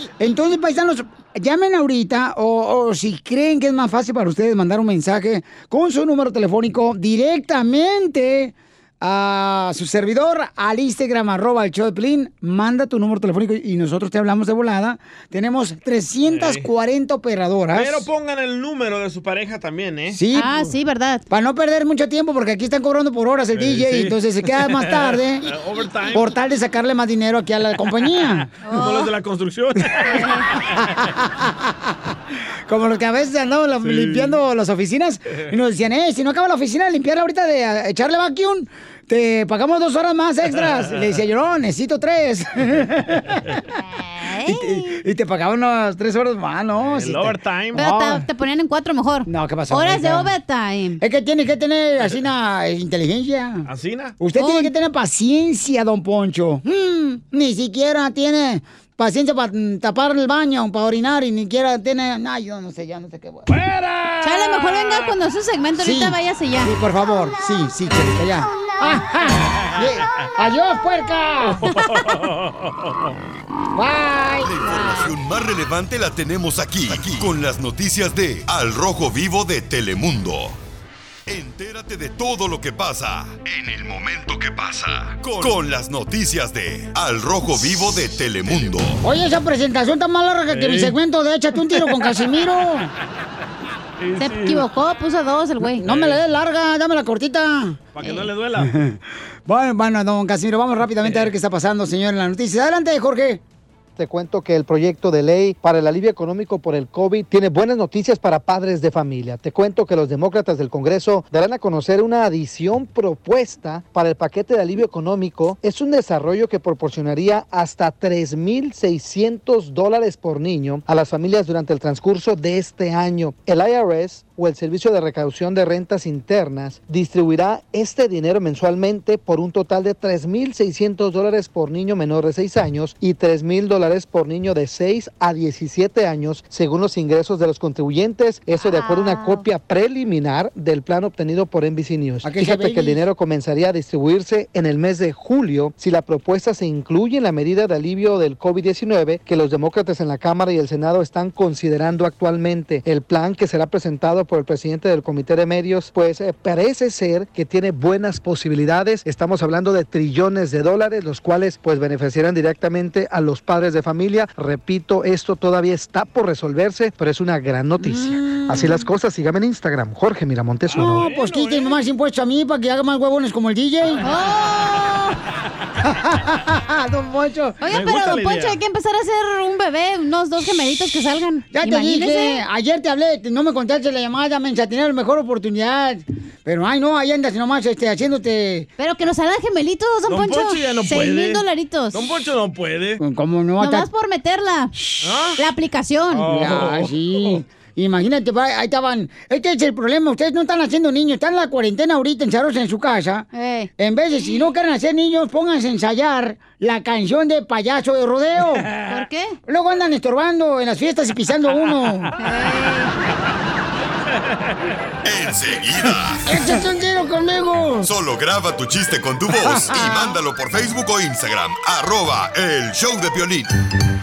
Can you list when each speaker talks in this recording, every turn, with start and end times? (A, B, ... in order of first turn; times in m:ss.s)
0:00.2-0:18.0 A
0:16.3-0:16.7 B
0:17.8-0:20.2 B
0:20.1-0:20.5 A
0:20.3-0:21.2 C
0:21.3-0:25.5 A
0:23.6-0:26.4 B
0:26.1-0:28.5 A
0:28.7-0:29.1 C
0:28.7-0:30.7 B
0:30.1-0:30.4 C
0:30.8-0:31.8 A
0:32.7-0:43.6 A
0:33.8-0:34.4 B
0:43.8-0:45.0 C
0:44.5-0:48.2 A
0:46.8-0:47.9 B
0:47.8-0:51.0 C
0:49.3-0:50.3 A
0:51.0-0:53.7 A
0:53.7-0:54.2 B
0:54.2-1:03.5 A
0:54.4-0:54.7 C
1:03.5-1:05.1 B
1:04.2-1:06.7 C
1:05.8-1:11.7 A
1:11.7-1:13.1 B
1:13.8-1:14.5 A
1:14.4-1:20.6 D
1:14.6-1:15.1 C
1:21.3-1:29.0 D
1:29.0-1:32.9 A
1:30.5-1:31.0 B
1:31.7-1:32.1 B
1:34.0-1:34.7 B
1:34.2-1:35.8 C
1:35.8-1:37.8 A
1:35.8-1:36.2 B
1:37.9-1:38.7 B
1:38.0-1:38.3 C
1:38.6-1:43.4 A
1:44.0-2:51.1 E
2:18.6-2:19.4 C
2:22.2-2:23.0 A
2:47.8-2:48.8 A
2:50.7-2:51.8 B
2:50.8-2:54.1 A
2:54.0-2:55.2 C
2:55.8-2:57.6 A
2:57.6-3:02.4 C
2:57.7-2:58.6 B
3:01.5-3:08.7 A
3:08.8-3:12.0 C
3:10.1-3:13.0 B
3:13.0-3:13.9 A
3:13.6-3:14.7 C
3:15.0-3:15.4 B
3:15.4-3:16.2 C
3:16.1-3:17.4 B
3:16.2-3:23.3 A
3:23.3-3:23.7 C
3:23.8-3:28.7 A
3:28.9-3:29.4 C
3:29.5-3:32.1 A
3:32.2-3:32.9 C
3:35.0-3:36.2 D
3:36.3-3:37.9 A
3:37.8-3:43.5 D
3:39.5-3:40.0 A